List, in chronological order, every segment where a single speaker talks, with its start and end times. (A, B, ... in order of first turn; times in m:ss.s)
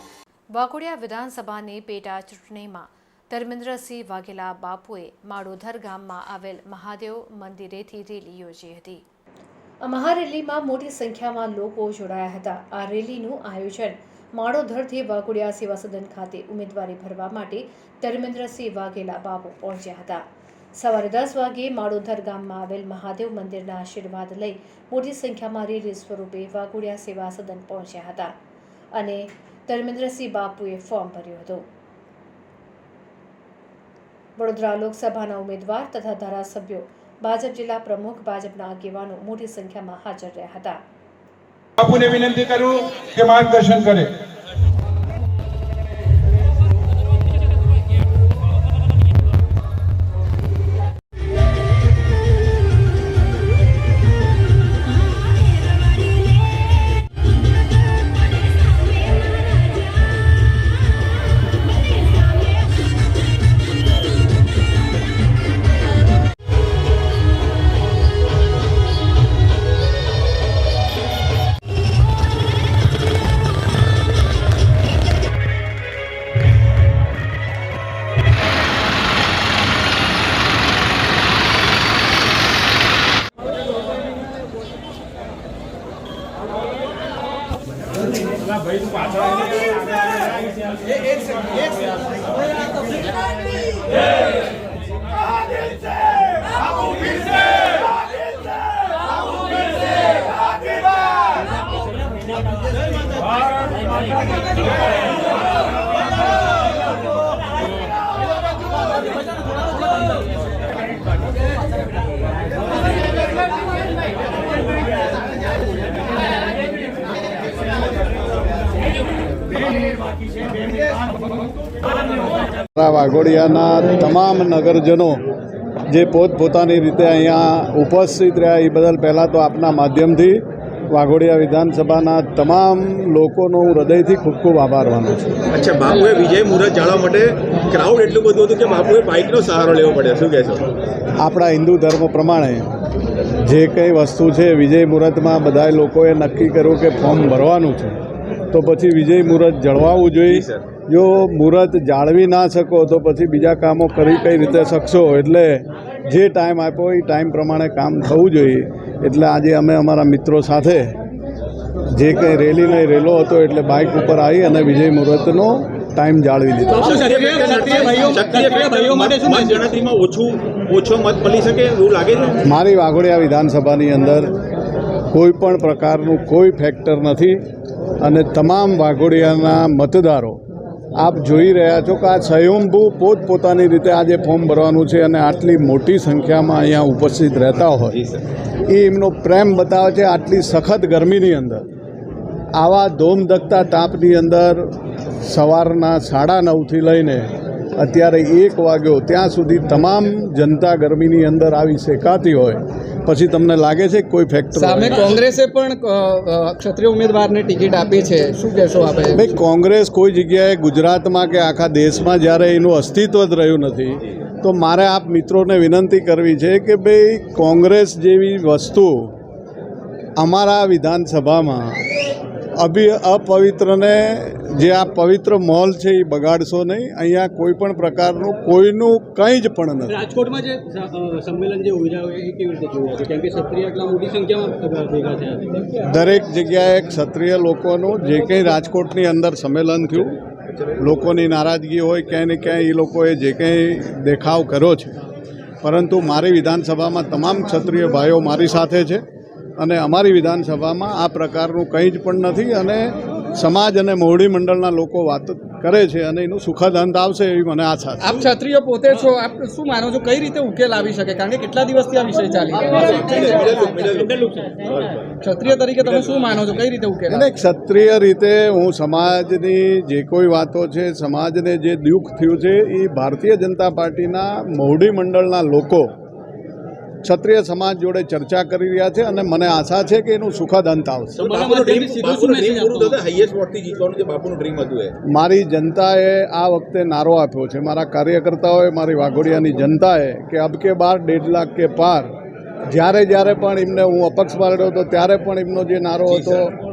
0:00.5-0:09.0 A
0:09.8-0:20.2 A
0:20.8-0:28.4 A
0:28.9-0:31.7 A
0:34.4-0:40.8 A
0:41.8-0:44.1 B
2:02.8-2:05.2 C
2:05.9-2:15.4 C
2:15.5-2:20.6 D
2:21.2-2:22.7 C
2:23.4-2:28.0 C
2:28.5-2:41.0 C
2:30.3-2:30.7 D
2:41.9-2:47.0 C
2:46.8-2:49.6 E
2:46.8-2:52.4 D
2:46.9-2:49.1 F
2:52.4-2:54.3 C
2:55.1-2:57.4 C
2:58.0-3:00.4 C
3:01.0-3:08.0 C
3:07.9-3:08.2 D
3:08.7-3:11.7 C
3:12.6-3:25.2 C
3:24.6-3:29.2 E
3:29.1-3:39.1 C
3:40.2-3:41.8 C
3:42.6-3:50.0 C
3:49.9-3:55.8 F
3:55.8-4:00.2 C
4:00.8-4:04.9 C
4:05.6-4:09.0 C
4:09.6-4:18.2 C
4:18.0-4:23.3 E
4:22.8-4:25.2 D
4:25.2-4:27.2 E
4:25.8-4:26.1 D
4:27.1-4:35.9 C
4:37.0-4:41.2 C
4:41.2-4:45.0 D
4:41.3-4:43.0 E
4:45.1-4:52.1 C
4:52.7-4:56.6 C
4:56.1-4:56.4 D